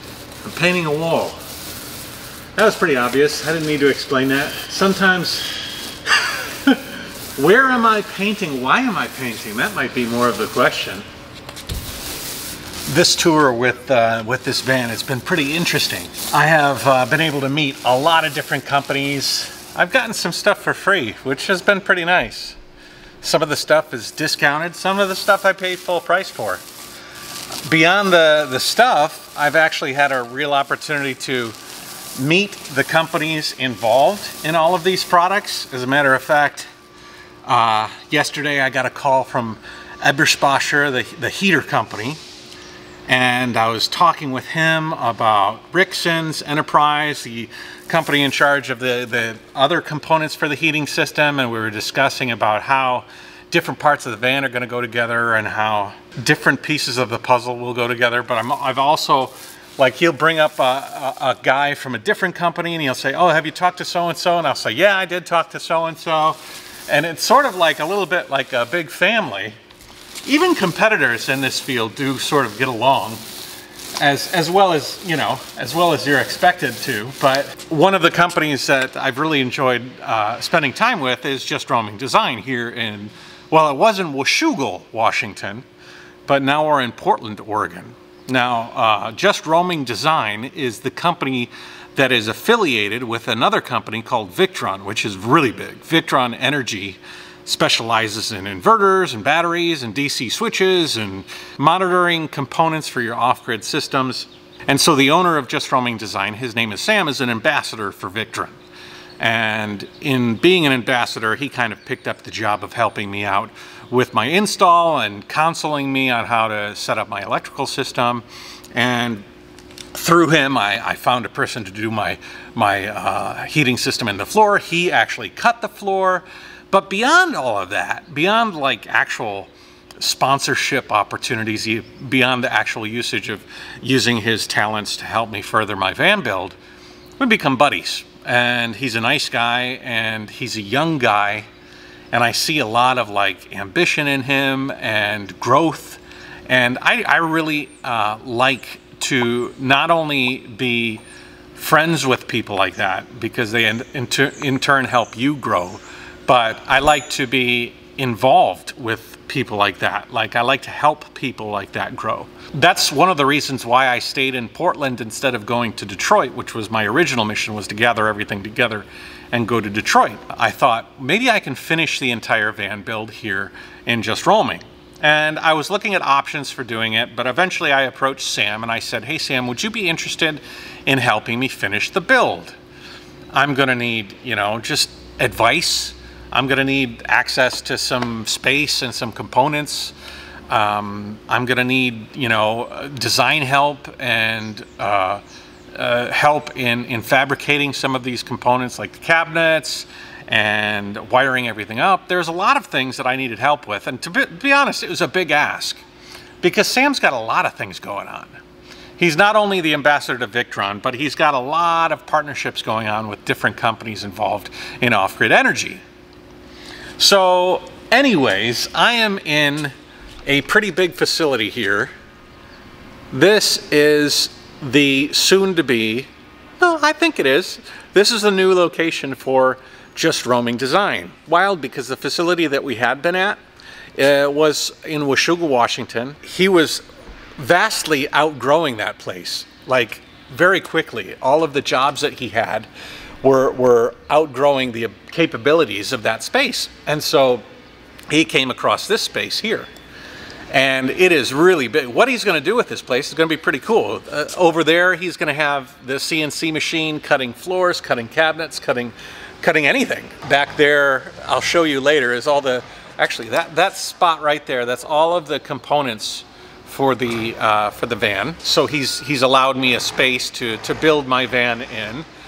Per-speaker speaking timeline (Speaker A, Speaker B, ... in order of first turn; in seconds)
Speaker A: 0.4-1.4, 2.5-11.1, 12.8-22.6, 23.2-26.6, 27.6-31.6, 32.1-36.7, 37.4-42.2, 43.1-69.6, 70.2-73.2, 74.0-85.7, 86.2-108.6, 109.2-119.2, 119.9-136.6, 137.2-141.5, 142.1-151.0, 151.5-182.6, 183.3-189.9, 190.5-195.2, 195.7-205.8, 206.4-208.4, 209.0-215.8, 217.0-219.7, 220.2-221.9, 223.1-233.4, 233.9-236.8, 237.4-242.7, 243.2-247.4, 248.1-249.7, 250.5-272.1